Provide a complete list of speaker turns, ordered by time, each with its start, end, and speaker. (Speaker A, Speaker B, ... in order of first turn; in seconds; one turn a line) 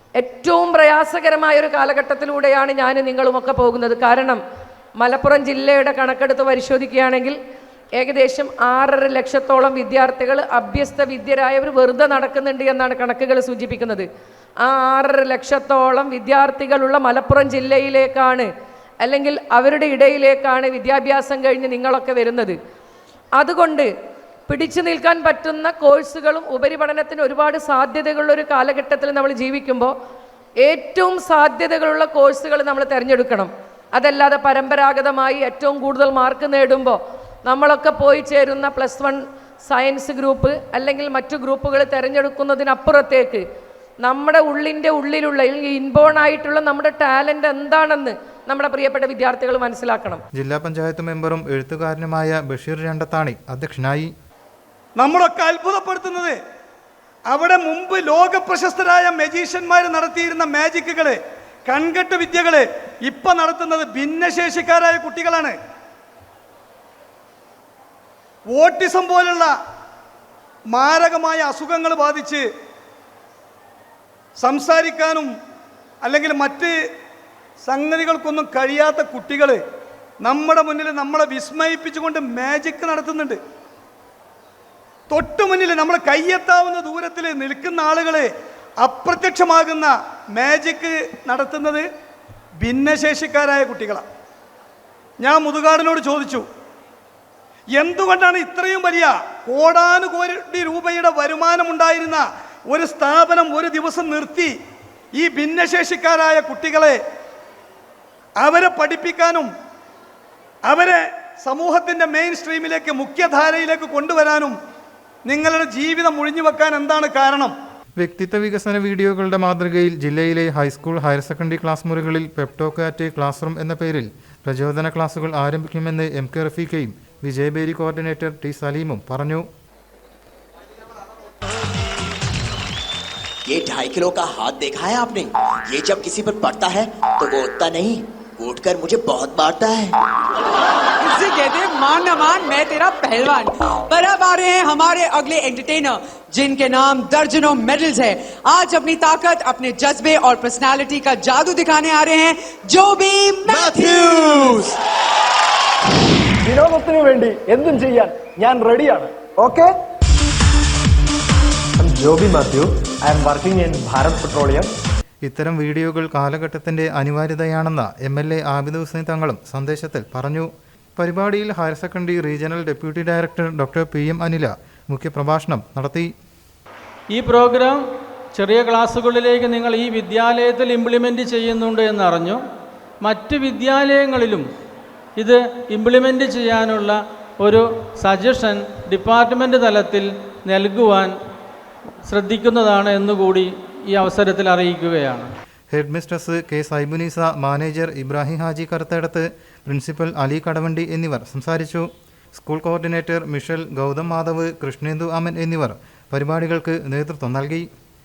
Speaker A: 0.2-4.4
Speaker A: 5.0-7.3
Speaker A: 8.0-14.1
Speaker A: 14.6-18.5
Speaker A: 19.0-22.6
Speaker A: 23.4-23.9
Speaker A: 24.5-29.9
Speaker A: 30.6-43.4
Speaker A: 44.0-50.2
Speaker B: 50.3-54.1
Speaker C: 55.0-56.4
Speaker C: 57.3-65.5
Speaker C: 68.5-69.5
Speaker C: 70.7-72.4
Speaker C: 74.4-75.3
Speaker C: 76.0-76.7
Speaker C: 77.6-79.6
Speaker C: 80.2-83.4
Speaker C: 85.1-88.3
Speaker C: 88.8-91.8
Speaker C: 92.6-94.0
Speaker C: 95.2-96.5
Speaker C: 97.8-104.5
Speaker C: 105.2-107.0
Speaker C: 108.4-109.5
Speaker C: 110.7-114.5
Speaker C: 115.3-117.5
Speaker B: 118.0-129.4
Speaker D: 133.5-139.9
Speaker E: 141.0-154.7
Speaker D: 153.5-154.5
Speaker F: 156.4-159.8
Speaker F: 161.8-164.7
Speaker B: 165.2-176.1
Speaker G: 177.1-177.8
Speaker G: 178.3-182.4
Speaker G: 183.0-184.4
Speaker G: 185.2-191.1
Speaker G: 192.1-195.3
Speaker B: 195.7-207.7